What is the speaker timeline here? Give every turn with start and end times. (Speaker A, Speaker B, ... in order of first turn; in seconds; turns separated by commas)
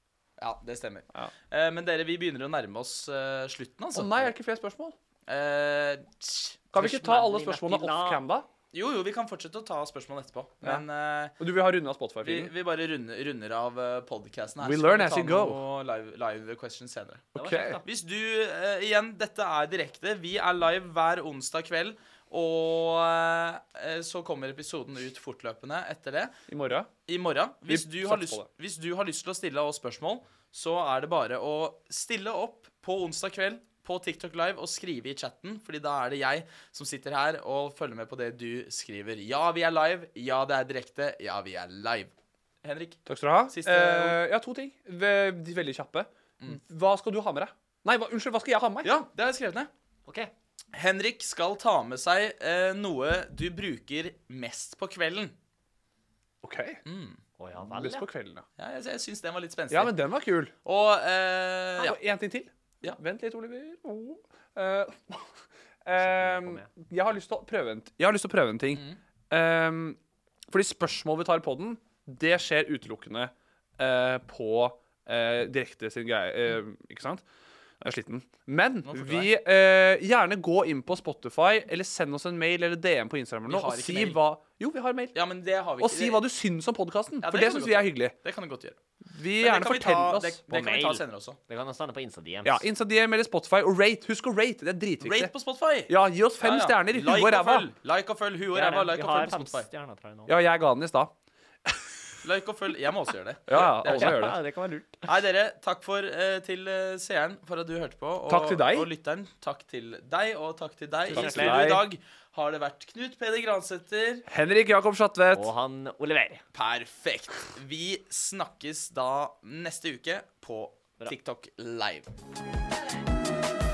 Speaker A: 0.4-4.3, Speaker B: 3.9-5.0, Speaker A: 5.3-6.6, Speaker B: 6.7-8.5, Speaker C: 6.8-8.2, Speaker A: 8.7-11.4, Speaker B: 11.4-12.5, Speaker A: 12.2-17.3, Speaker B: 14.6-15.6, Speaker B: 17.4-17.8, Speaker C: 17.4-17.8, Speaker A: 17.8-26.4, Speaker B: 26.5-26.9, Speaker A: 27.1-44.2, Speaker B: 27.7-28.5, Speaker B: 43.1-48.9, Speaker A: 48.8-49.7, Speaker A: 50.7-55.4, Speaker B: 56.4-56.8, Speaker A: 56.9-57.2, Speaker C: 57.4-58.1, Speaker B: 57.7-58.5, Speaker A: 58.6-60.0, Speaker B: 59.7-60.5, Speaker A: 60.6-62.0, Speaker B: 61.8-65.3, Speaker B: 65.8-77.2, Speaker C: 66.0-66.7, Speaker A: 68.7-69.0, Speaker B: 77.8-85.2, Speaker A: 78.8-79.3, Speaker A: 83.5-84.2, Speaker A: 85.1-86.3, Speaker B: 85.8-88.2, Speaker A: 87.2-88.8, Speaker B: 89.0-90.4, Speaker A: 89.4-91.4, Speaker C: 90.5-92.7, Speaker B: 92.5-95.3, Speaker A: 95.0-99.7, Speaker B: 95.9-97.7, Speaker C: 98.5-100.3, Speaker B: 100.3-101.1, Speaker A: 102.2-104.3, Speaker B: 103.5-104.4, Speaker C: 103.9-105.1, Speaker A: 105.1-114.3, Speaker B: 108.3-108.9, Speaker C: 111.1-111.7, Speaker B: 111.1-111.8, Speaker B: 114.3-115.5, Speaker C: 115.3-116.4, Speaker A: 116.5-122.1